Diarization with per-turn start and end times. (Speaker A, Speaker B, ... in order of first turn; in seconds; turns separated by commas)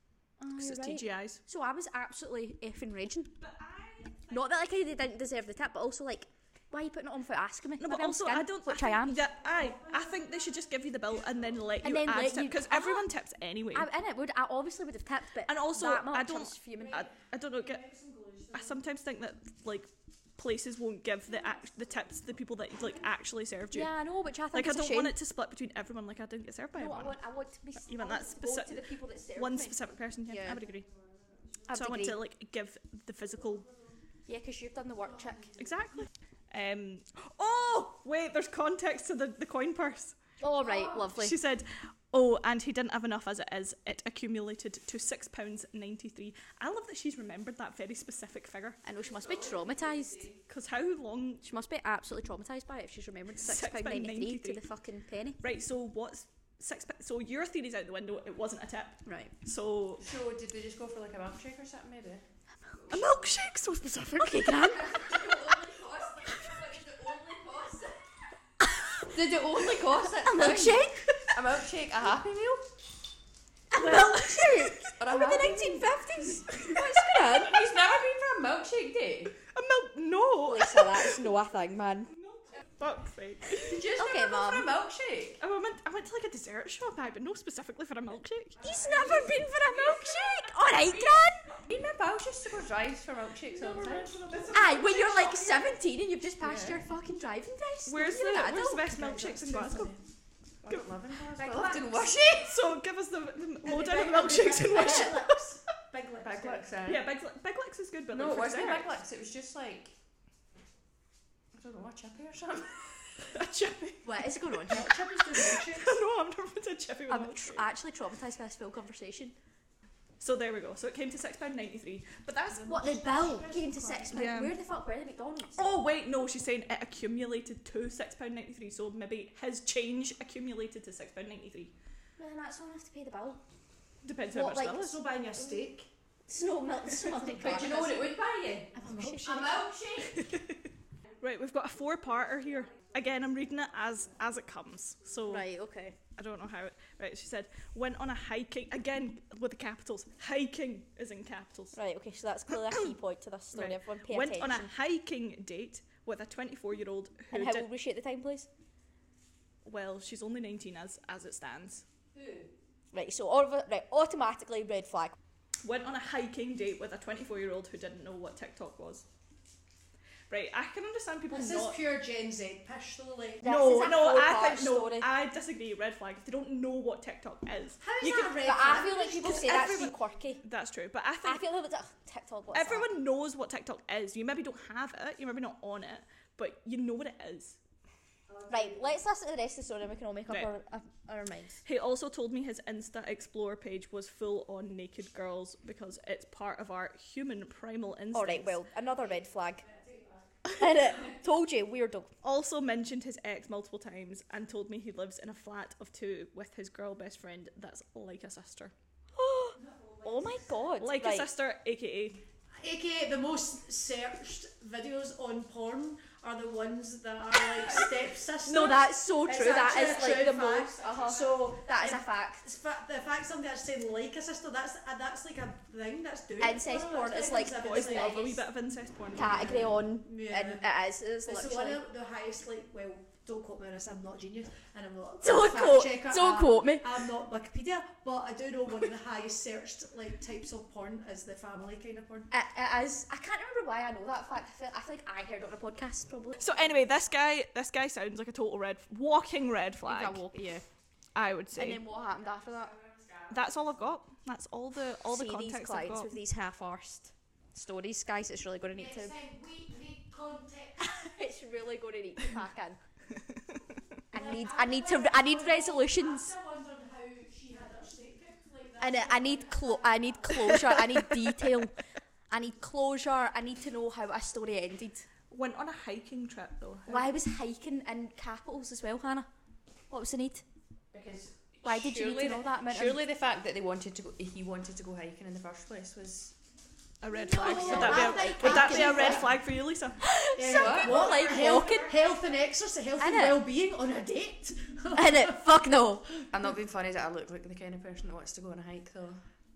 Speaker A: 0.4-3.4, Speaker B: 0.6-1.4, Speaker B: 3.4-4.8, Speaker A: 4.3-9.2, Speaker B: 7.8-13.9, Speaker C: 9.4-10.3, Speaker A: 11.8-13.1, Speaker A: 13.7-17.1, Speaker B: 15.4-17.9, Speaker C: 16.9-18.6, Speaker B: 18.5-23.9, Speaker A: 23.7-25.1, Speaker B: 24.5-27.2, Speaker A: 26.8-30.6, Speaker B: 27.7-30.9, Speaker A: 31.7-32.2, Speaker B: 31.7-33.6, Speaker A: 34.2-35.6, Speaker B: 35.6-40.2, Speaker A: 40.4-41.3, Speaker B: 41.1-48.8, Speaker A: 48.8-50.2, Speaker D: 49.0-50.4, Speaker B: 50.5-51.4, Speaker A: 51.4-55.4, Speaker B: 53.4-54.6, Speaker B: 55.4-60.1, Speaker A: 59.0-59.3, Speaker D: 60.0-63.4, Speaker B: 62.9-64.7, Speaker A: 64.2-65.4, Speaker D: 64.7-68.0, Speaker A: 68.6-69.1, Speaker D: 69.1-72.6, Speaker A: 69.8-71.0, Speaker A: 73.7-77.7, Speaker B: 73.7-74.9, Speaker D: 75.0-79.3, Speaker B: 79.5-81.2, Speaker A: 80.4-82.1, Speaker B: 82.3-83.8, Speaker D: 83.6-85.4, Speaker A: 84.0-84.7, Speaker B: 85.4-90.4, Speaker A: 88.6-91.7, Speaker D: 91.7-94.1, Speaker B: 93.6-95.7, Speaker C: 93.8-95.2, Speaker A: 94.5-98.8, Speaker D: 96.4-96.8, Speaker B: 97.9-99.9, Speaker C: 98.8-100.0, Speaker D: 100.6-102.6, Speaker A: 101.4-102.0, Speaker C: 101.5-102.0, Speaker B: 102.3-105.4, Speaker C: 103.6-106.7, Speaker A: 104.3-105.2, Speaker D: 106.2-107.0, Speaker B: 106.8-109.0, Speaker D: 108.1-109.9, Speaker D: 111.5-112.8, Speaker B: 113.2-117.7, Speaker A: 114.0-115.0, Speaker C: 114.7-115.9, Speaker A: 117.1-119.3, Speaker B: 120.2-122.7, Speaker C: 122.5-124.4, Speaker A: 122.6-125.7, Speaker B: 124.1-124.5, Speaker B: 125.5-131.7, Speaker A: 132.2-133.4, Speaker B: 134.0-135.0, Speaker A: 134.3-134.8, Speaker C: 134.7-135.9, Speaker A: 136.3-138.0, Speaker D: 137.2-140.2, Speaker A: 138.7-139.6, Speaker C: 138.8-139.6, Speaker B: 140.0-140.6, Speaker B: 141.2-145.5, Speaker A: 145.3-145.9, Speaker B: 146.2-151.8, Speaker A: 151.7-154.7, Speaker B: 153.5-157.7, Speaker A: 157.3-158.5, Speaker B: 159.6-161.8, Speaker D: 162.1-162.5, Speaker A: 162.9-165.2, Speaker B: 165.6-169.0, Speaker B: 170.3-171.8, Speaker C: 171.3-173.6, Speaker A: 173.4-175.1, Speaker B: 173.4-178.3, Speaker C: 177.8-179.9, Speaker A: 178.4-180.4, Speaker B: 180.4-181.4, Speaker A: 181.2-182.9, Speaker B: 182.5-187.6, Speaker D: 188.3-188.9, Speaker A: 188.5-191.6, Speaker B: 191.6-198.6, Speaker A: 198.1-199.6, Speaker C: 199.0-201.0, Speaker B: 200.4-200.7, Speaker A: 200.5-202.1, Speaker B: 202.2-208.7, Speaker A: 209.1-211.3, Speaker C: 209.5-210.5, Speaker B: 210.8-212.2, Speaker C: 212.6-228.4, Speaker A: 218.4-222.4, Speaker A: 226.4-228.4, Speaker B: 227.5-229.6, Speaker A: 229.1-231.8, Speaker C: 229.2-230.6, Speaker C: 231.2-242.3, Speaker A: 235.2-237.0, Speaker A: 242.3-246.4, Speaker B: 246.4-250.2, Speaker A: 249.8-250.6, Speaker B: 251.1-251.8, Speaker A: 251.5-252.7, Speaker D: 252.7-253.4, Speaker B: 253.3-256.1, Speaker A: 255.1-259.1, Speaker C: 258.7-261.1, Speaker A: 260.8-262.8, Speaker B: 263.1-263.6, Speaker A: 264.1-266.3, Speaker C: 264.1-270.8, Speaker A: 268.8-271.8, Speaker A: 272.3-275.1, Speaker B: 275.3-277.1, Speaker A: 276.9-279.3, Speaker A: 279.9-280.4, Speaker D: 280.9-286.3, Speaker A: 281.6-283.0, Speaker B: 287.0-290.0, Speaker A: 287.1-289.3, Speaker C: 287.3-289.3, Speaker D: 287.8-288.1, Speaker A: 290.0-291.9, Speaker C: 290.3-295.7, Speaker D: 290.4-291.4, Speaker A: 293.0-293.4, Speaker A: 294.9-296.1, Speaker D: 296.3-299.2